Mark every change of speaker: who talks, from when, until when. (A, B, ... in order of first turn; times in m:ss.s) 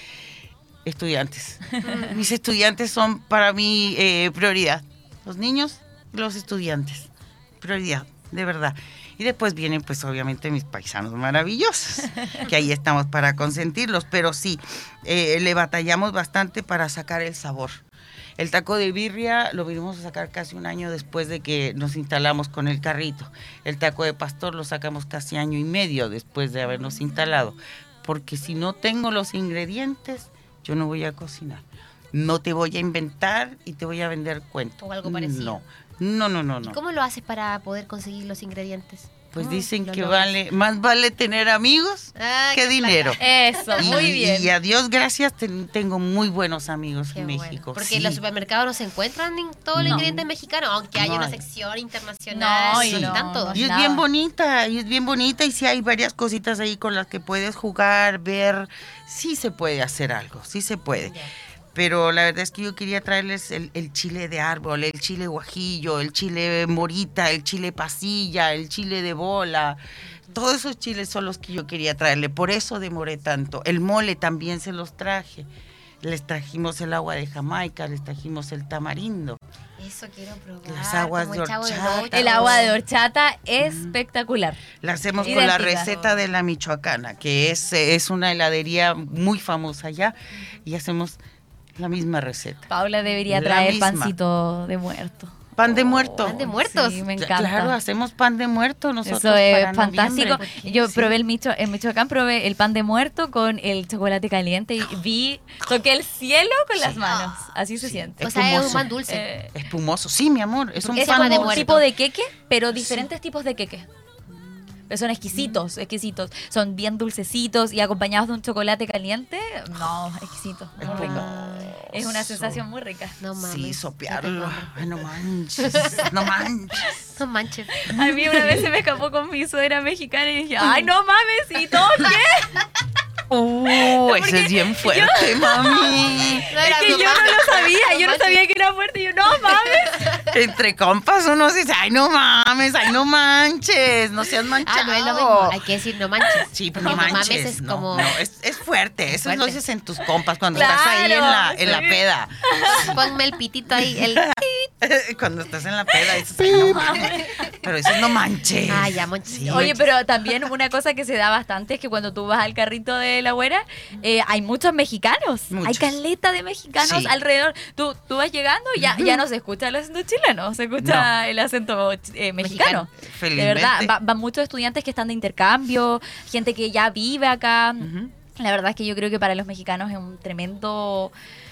0:00.8-0:17.8 A
0:01.8-0:02.2 B
0:18.4-0:36.8 A
0:34.8-0:35.6 B
0:36.6-0:39.3 B
0:39.3-0:43.2 A
0:39.4-0:39.7 C
0:39.8-0:40.3 B
0:42.2-0:44.1 B
0:43.2-0:44.5 C
0:43.7-0:48.2 A
0:47.1-0:53.6 B
0:49.8-0:50.3 A
0:51.0-0:51.4 A
0:52.3-0:54.0 C
0:52.7-1:01.2 A
1:01.0-1:01.3 B
1:01.8-1:09.8 A
1:10.3-1:15.5 A
1:16.0-1:19.4 A
1:19.8-1:22.8 B
1:20.6-1:22.6 A
1:22.1-1:24.6 C
1:23.6-1:24.0 A
1:24.8-1:31.2 A
1:25.2-1:25.9 C
1:25.2-1:26.2 B
1:31.8-1:32.7 A
1:32.7-1:37.8 C
1:33.3-1:34.2 A
1:35.6-1:36.5 A
1:36.2-1:37.1 B
1:37.2-1:41.2 A
1:39.0-1:49.6 C
1:40.3-1:40.6 B
1:46.8-1:47.1 A
1:47.1-1:47.3 B
1:47.8-1:48.9 A
1:48.2-1:49.3 B
1:49.5-1:51.8 A
1:50.9-1:51.9 B
1:50.9-1:53.9 C
1:52.8-1:53.1 A
1:54.9-2:03.2 C
2:00.8-2:02.6 A
2:00.8-2:01.7 B
2:03.2-2:04.8 B
2:03.4-2:07.1 A
2:05.6-2:06.1 B
2:07.2-2:08.5 B
2:07.8-2:12.6 C
2:13.3-2:17.0 A
2:14.0-2:20.1 C
2:16.4-2:18.4 B
2:19.4-2:20.3 B
2:20.3-2:25.6 A
2:24.6-2:28.2 B
2:26.5-2:33.0 A
2:26.8-2:27.2 C
2:29.2-2:29.6 B
2:30.5-2:32.9 C
2:32.7-2:34.3 B
2:33.8-2:39.8 A
2:36.4-2:37.5 C
2:38.7-2:39.9 B
2:39.5-3:01.1 C
2:45.5-2:46.0 A
2:46.8-2:47.1 A
2:48.8-2:49.2 A
2:50.8-2:51.1 A
2:52.4-2:52.9 B
2:53.0-2:53.9 A
2:57.8-2:58.1 A